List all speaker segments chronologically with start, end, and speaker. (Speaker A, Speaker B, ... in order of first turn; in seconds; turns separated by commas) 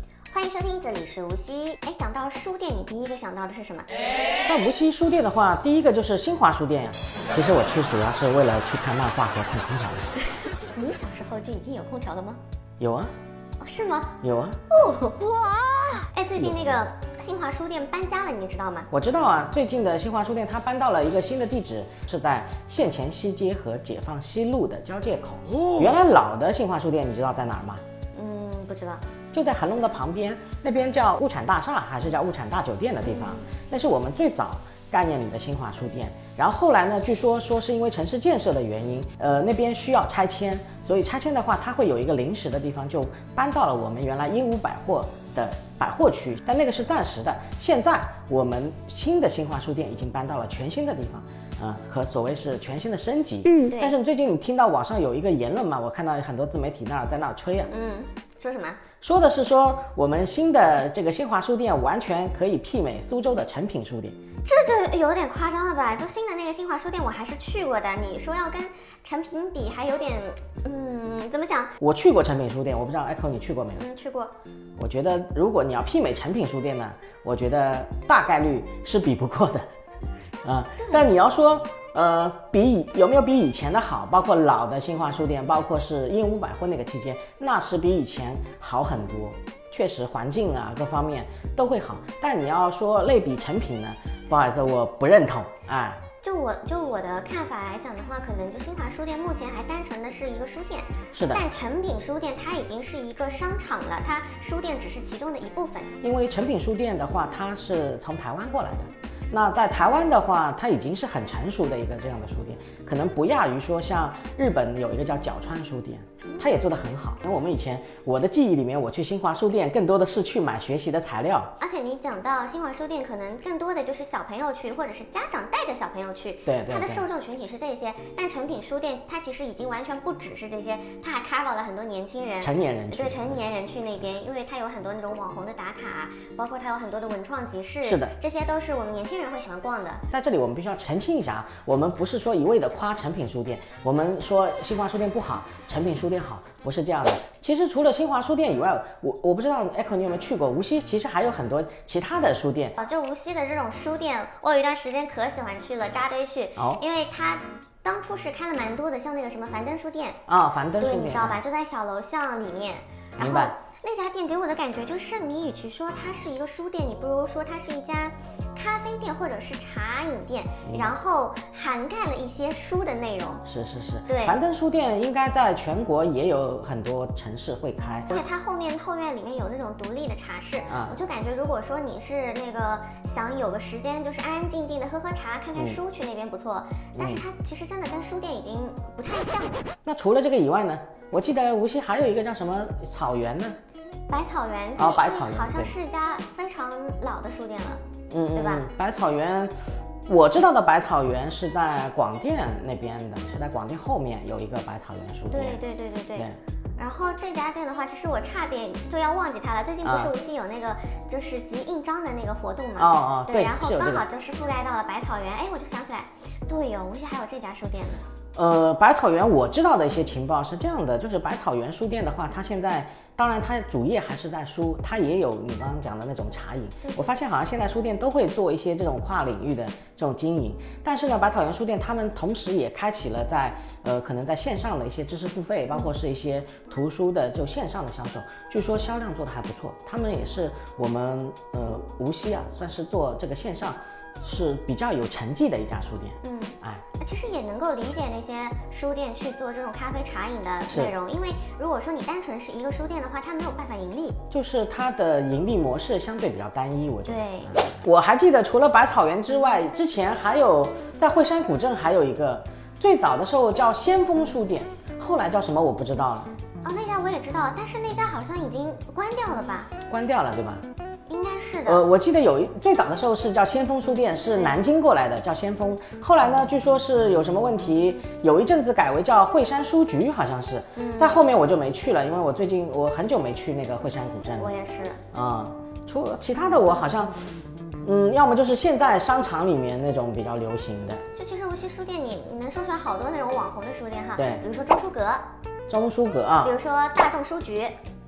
Speaker A: 0.3-4.0, Speaker B: 4.4-10.2, Speaker A: 10.7-12.4, Speaker B: 12.8-13.1, Speaker A: 13.6-14.2, Speaker B: 14.2-14.6, Speaker A: 14.7-18.9, Speaker B: 18.9-27.8, Speaker A: 28.1-29.0, Speaker B: 29.3-57.7, Speaker A: 53.5-53.9, Speaker A: 57.7-58.8, Speaker B: 59.0-64.2, Speaker A: 64.4-71.7, Speaker B: 71.8-73.8, Speaker A: 73.8-74.3, Speaker B: 74.8-79.7, Speaker B: 80.4-96.0, Speaker A: 96.2-105.9, Speaker B: 101.1-101.4, Speaker B: 106.0-121.5, Speaker A: 121.6-140.0, Speaker B: 126.5-127.0, Speaker B: 132.4-133.4, Speaker B: 137.8-138.1, Speaker B: 140.1-152.8, Speaker A: 152.8-160.2, Speaker B: 156.6-156.8, Speaker B: 160.3-161.4, Speaker A: 160.8-173.4, Speaker B: 163.2-163.5, Speaker B: 170.6-170.9, Speaker B: 173.4-178.2, Speaker A: 174.1-174.4, Speaker A: 178.1-189.6, Speaker B: 180.7-181.0, Speaker B: 189.8-193.6, Speaker A: 194.1-197.8, Speaker B: 194.8-195.7, Speaker B: 198.1-199.5, Speaker A: 198.3-198.7, Speaker B: 200.1-205.6, Speaker A: 205.3-218.1, Speaker B: 209.8-210.1, Speaker B: 212.8-214.0, Speaker B: 218.3-246.8, Speaker A: 226.8-227.1, Speaker A: 246.2-254.2, Speaker B: 254.3-266.3, Speaker A: 257.1-257.5, Speaker A: 266.6-269.7, Speaker B: 269.9-270.6, Speaker A: 271.1-271.8, Speaker B: 271.7-284.5, Speaker A: 280.8-281.2, Speaker A: 284.4-285.0, Speaker B: 285.1-291.0, Speaker A: 291.1-295.2, Speaker B: 294.2-294.4, Speaker B: 295.7-296.5, Speaker A: 296.4-297.8